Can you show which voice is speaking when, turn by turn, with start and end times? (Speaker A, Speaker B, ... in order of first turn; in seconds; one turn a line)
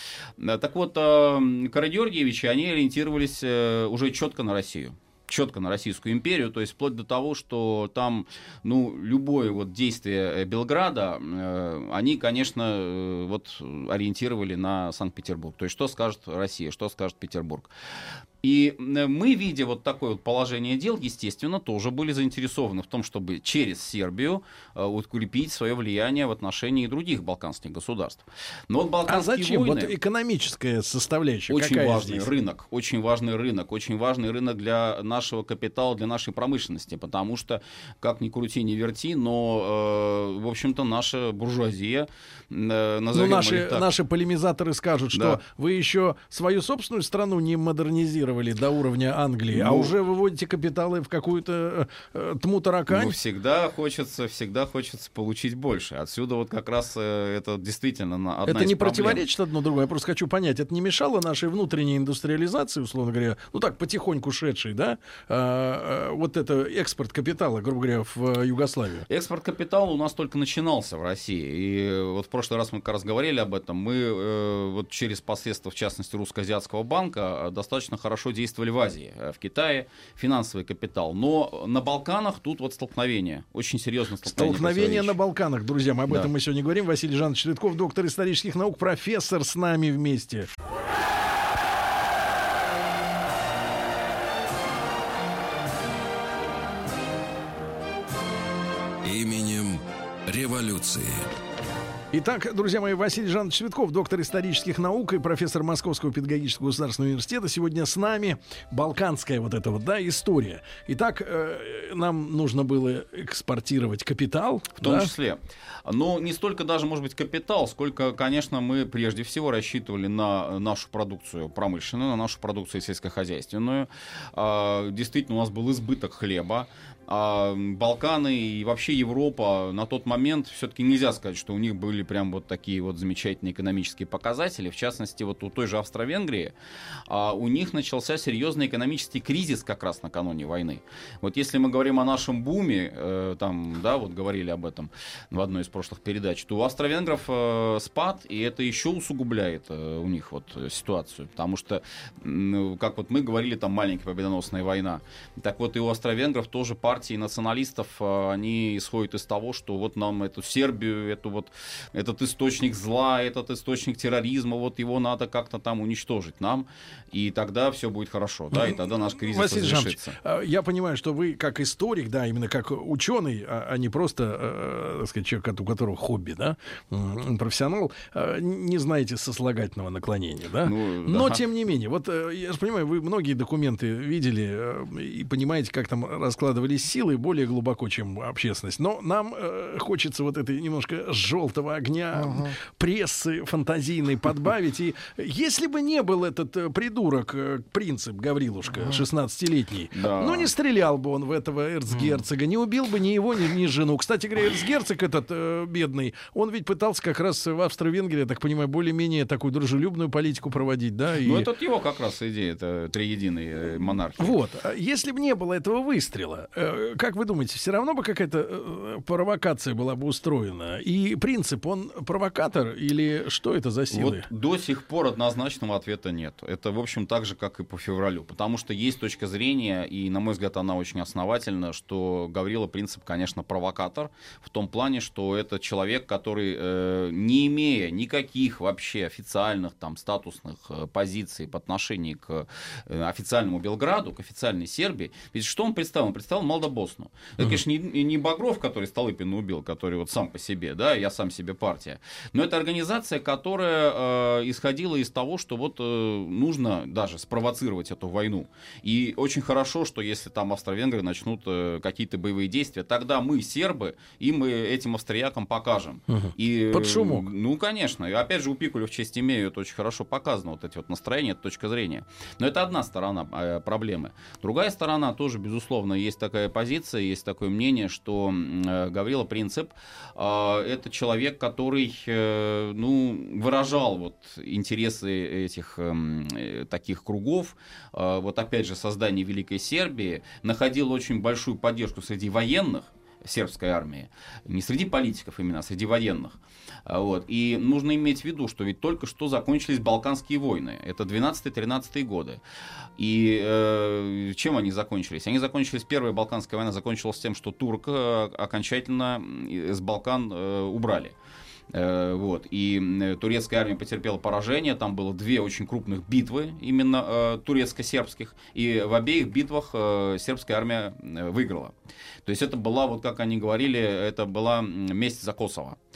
Speaker A: 0.4-17.7
Speaker A: 18.4-29.9
Speaker B: 29.1-32.3
Speaker A: 31.5-43.9
Speaker B: 43.1-53.1
Speaker A: 45.1-45.4
Speaker A: 49.5-49.9
Speaker A: 52.9-59.2
Speaker B: 58.5-69.0
Speaker A: 69.1-85.2
Speaker B: 84.2-90.5
Speaker C: 99.0-101.3
Speaker B: 102.1-115.1
Speaker A: 114.8-136.5
Speaker A: 137.1-170.2
Speaker B: 168.5-211.5
Speaker A: 180.6-181.4
Speaker A: 199.9-200.5
Speaker A: 211.2-214.4
Speaker B: 214.2-224.3
Speaker A: 223.9-302.4
Speaker B: 266.1-267.3
Speaker A: 303.0-311.1
Speaker A: 311.7-325.8